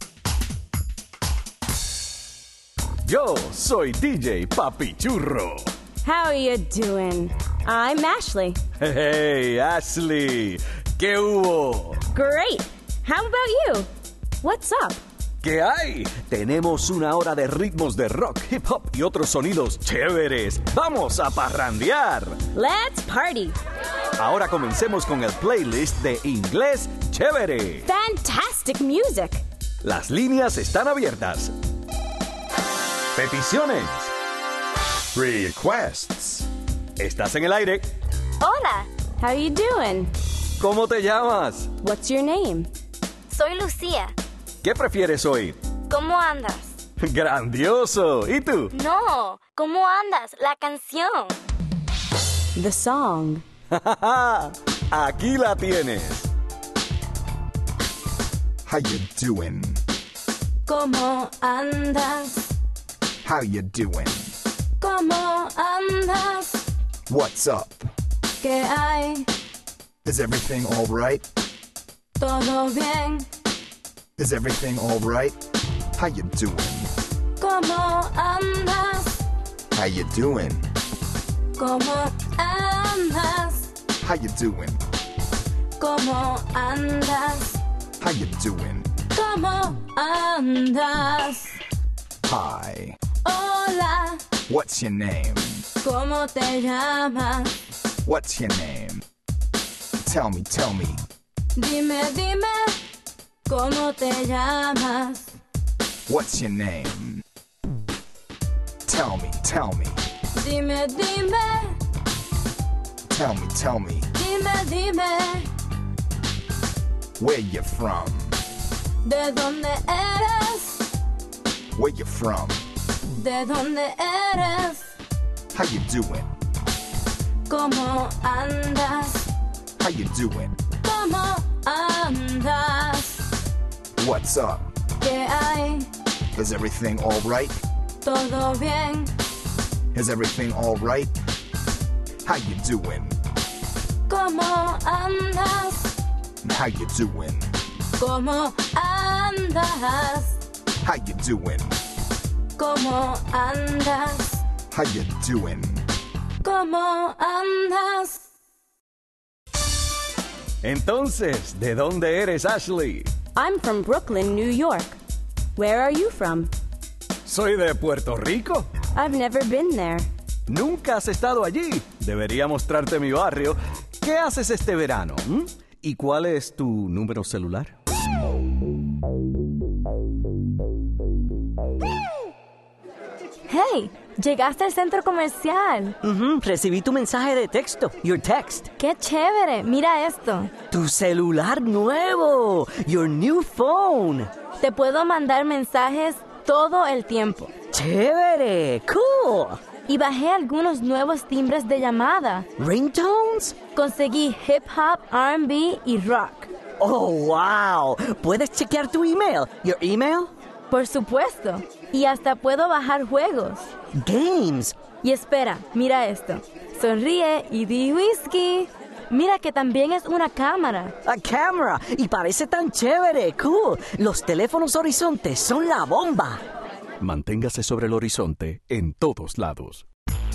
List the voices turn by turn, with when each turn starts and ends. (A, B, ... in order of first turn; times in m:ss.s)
0:03.0-0:05.7 A
0:06.0-0:08.6 B
0:08.8-0:12.0 A
0:12.1-0:13.9 B
0:14.4-0:15.0 B
0:15.4-0:22.4 A
0:22.5-0:23.6 B
0:24.2-0:27.9 A
0:27.8-0:29.4 B
0:29.8-0:31.5 A
0:33.1-0:34.1 A
0:35.1-0:36.4 A
0:37.0-0:37.9 A
0:38.4-0:38.9 C
0:39.2-0:40.1 B
0:40.6-0:41.7 A
0:41.8-0:42.7 B
0:43.3-0:44.1 C
0:44.6-0:45.6 A
0:45.9-0:46.8 C
0:47.0-0:48.7 A
0:48.7-0:51.4 C
0:52.6-0:53.4 B
0:53.7-0:56.3 A
0:58.6-0:59.8 D
1:00.6-1:02.6 C
1:03.2-1:04.3 D
1:04.8-1:06.6 C
1:07.1-1:07.8 D
1:08.4-1:09.3 C
1:10.0-1:11.2 D
1:12.2-1:13.3 C
1:14.2-1:15.4 D
1:15.9-1:16.9 D
1:17.4-1:19.2 C
1:19.7-1:20.6 D
1:21.5-1:23.7 C
1:24.0-1:24.8 D
1:25.8-1:27.6 C
1:28.0-1:28.9 D
1:29.1-1:31.6 C
1:32.2-1:33.0 D
1:33.2-1:34.3 C
1:34.5-1:35.6 D
1:35.8-1:37.6 C
1:38.0-1:39.0 D
1:40.0-1:41.0 D
1:41.6-1:42.8 C
1:43.4-1:45.3 C
1:46.1-1:47.2 D
1:48.8-1:50.0 D
1:50.3-1:51.8 C
1:53.1-1:54.1 D
1:54.1-1:55.5 C
1:57.2-1:58.4 D
1:59.0-2:00.9 C
2:01.7-2:02.6 D
2:03.1-2:04.9 C
2:05.5-2:06.3 D
2:07.5-2:09.3 C
2:09.8-2:10.6 D
2:10.8-2:13.3 C
2:14.0-2:14.6 D
2:15.0-2:15.9 C
2:16.3-2:17.5 D
2:18.0-2:19.1 C
2:19.9-2:21.1 D
2:22.2-2:23.2 D
2:24.1-2:25.9 C
2:26.4-2:27.5 D
2:28.0-2:30.4 C
2:30.8-2:31.8 D
2:32.6-2:34.4 C
2:34.7-2:35.9 D
2:36.4-2:38.3 C
2:40.6-2:43.1 A
2:43.3-2:45.0 B
2:45.6-2:46.5 B
2:47.2-2:48.7 A
2:48.9-2:50.1 B
2:50.5-2:57.7 A
3:03.5-3:06.0 C
3:06.0-3:08.7 E
3:08.8-3:10.5 C
3:10.7-3:14.3 E
3:14.6-3:17.5 C
3:17.7-3:19.6 E
3:19.9-3:22.5 C
3:22.6-3:23.5 E
3:23.7-3:26.5 C
3:26.8-3:30.3 E
3:30.7-3:33.7 C
3:34.0-3:34.7 E
3:35.0-3:40.9 C
3:41.0-3:46.4 E
3:47.0-3:49.8 A